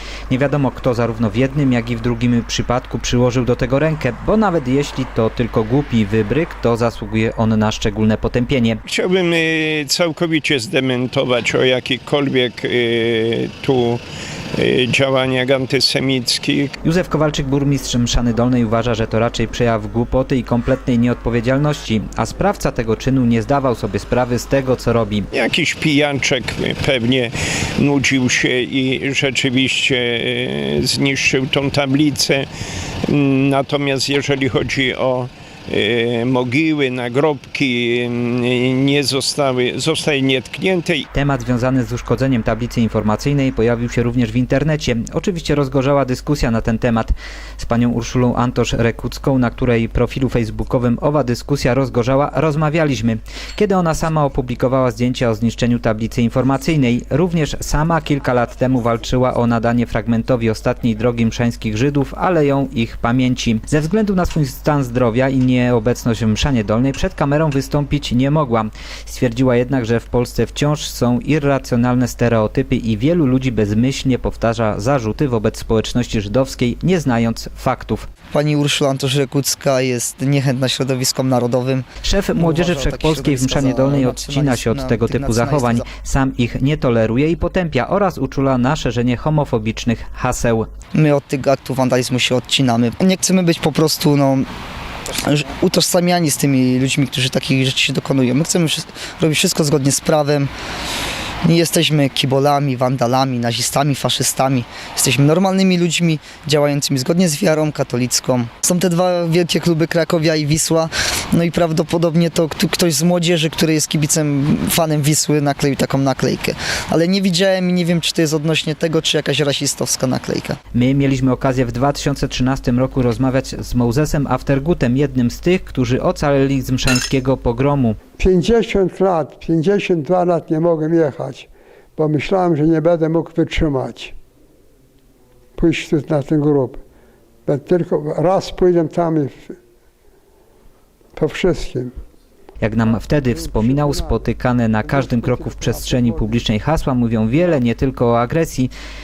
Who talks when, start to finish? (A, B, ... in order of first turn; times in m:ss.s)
0:00.3-0:08.8 A
0:08.9-0:14.0 B
0:14.6-0:16.8 B
0:16.8-0:25.3 A
0:25.3-0:32.5 B
0:33.1-0:41.1 B
0:41.1-1:18.1 A
1:18.3-1:25.8 C
1:22.0-1:30.7 A
1:30.9-1:34.5 C
1:35.1-1:40.5 C
1:41.4-2:00.6 C
2:00.7-2:08.0 A
2:08.2-2:14.1 D
2:15.6-2:16.8 D
2:17.5-2:19.6 D
2:21.2-2:21.9 D
2:22.6-2:28.7 A
2:22.9-2:24.3 D
2:24.8-2:26.5 D